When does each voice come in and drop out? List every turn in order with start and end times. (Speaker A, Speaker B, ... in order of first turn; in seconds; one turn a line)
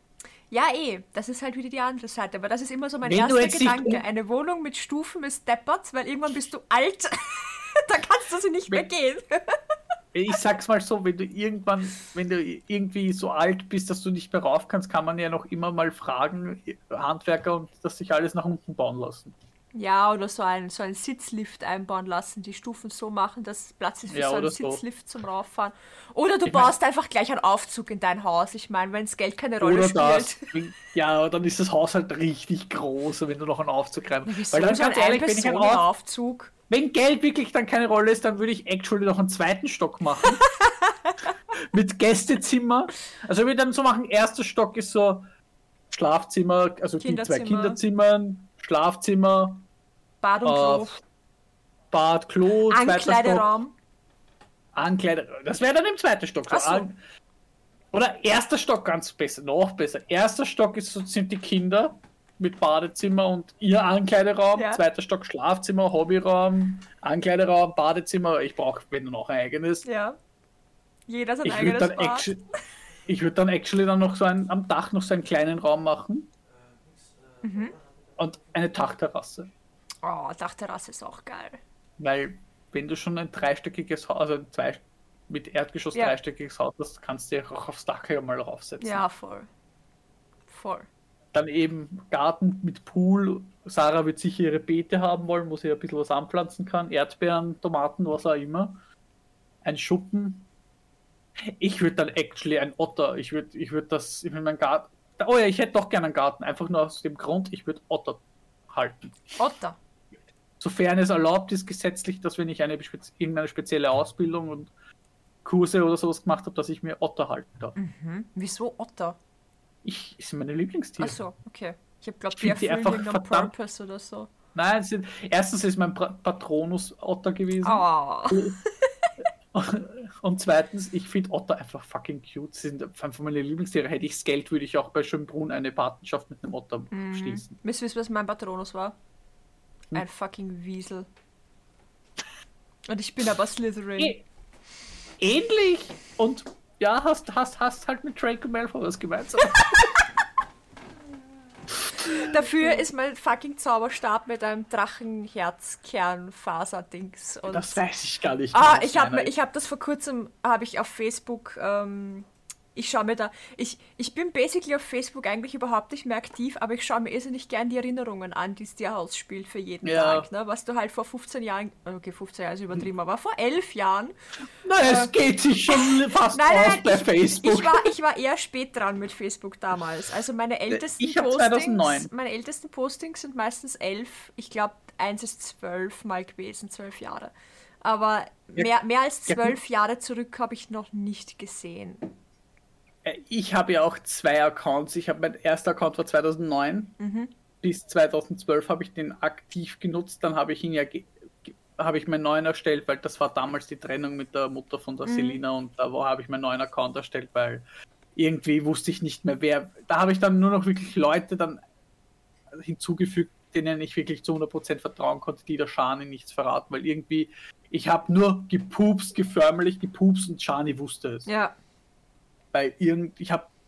Speaker A: 0.5-9.6
Speaker B: 3.0-4.0
Speaker B: 10.1-19.3
Speaker A: 19.7-30.5
Speaker B: 24.1-24.8
Speaker B: 26.5-26.7
Speaker B: 29.6-35.8
Speaker A: 34.3-36.5
Speaker B: 36.7-40.4
Speaker A: 40.5-41.1
Speaker B: 41.6-45.3
Speaker B: 45.9-49.6
Speaker A: 47.0-47.8
Speaker A: 50.2-51.0
Speaker B: 50.4-51.0
Speaker B: 51.9-53.5
Speaker A: 52.7-53.7
Speaker B: 54.8-57.0
Speaker A: 56.5-56.9
Speaker B: 57.9-69.8
Speaker A: 64.5-64.8
Speaker A: 69.8-70.2
Speaker A: 71.1-72.3
Speaker B: 71.4-72.4
Speaker B: 73.1-76.3
Speaker A: 77.4-77.8
Speaker B: 78.2-79.5
Speaker A: 80.0-81.6
Speaker B: 82.0-89.0
Speaker A: 88.8-89.5
Speaker A: 90.5-90.9
Speaker B: 91.3-98.8
Speaker B: 99.6-100.5
Speaker B: 101.4-109.2
Speaker A: 109.4-109.8
Speaker B: 110.6-114.7
Speaker B: 115.5-117.8
Speaker A: 117.8-119.2
Speaker B: 119.8-121.2
Speaker A: 121.0-124.3
Speaker B: 122.3-123.5
Speaker B: 124.5-128.6
Speaker A: 127.6-128.9
Speaker B: 129.5-137.5
Speaker A: 136.9-138.9
Speaker A: 139.9-141.1
Speaker A: 142.9-144.2
Speaker B: 144.0-144.2
Speaker B: 145.2-150.1
Speaker B: 152.0-152.7
Speaker A: 152.0-157.8
Speaker B: 157.5-159.3
Speaker A: 158.5-174.2
Speaker B: 169.8-170.3
Speaker B: 174.6-177.9
Speaker A: 174.8-175.1
Speaker A: 175.7-187.3
Speaker B: 180.7-182.1
Speaker A: 187.8-192.1
Speaker B: 189.3-189.6
Speaker B: 193.0-197.0
Speaker A: 197.0-197.3
Speaker B: 197.6-207.6
Speaker A: 205.1-205.4
Speaker B: 208.2-211.6
Speaker B: 212.5-221.3
Speaker A: 221.3-221.6
Speaker B: 222.5-223.5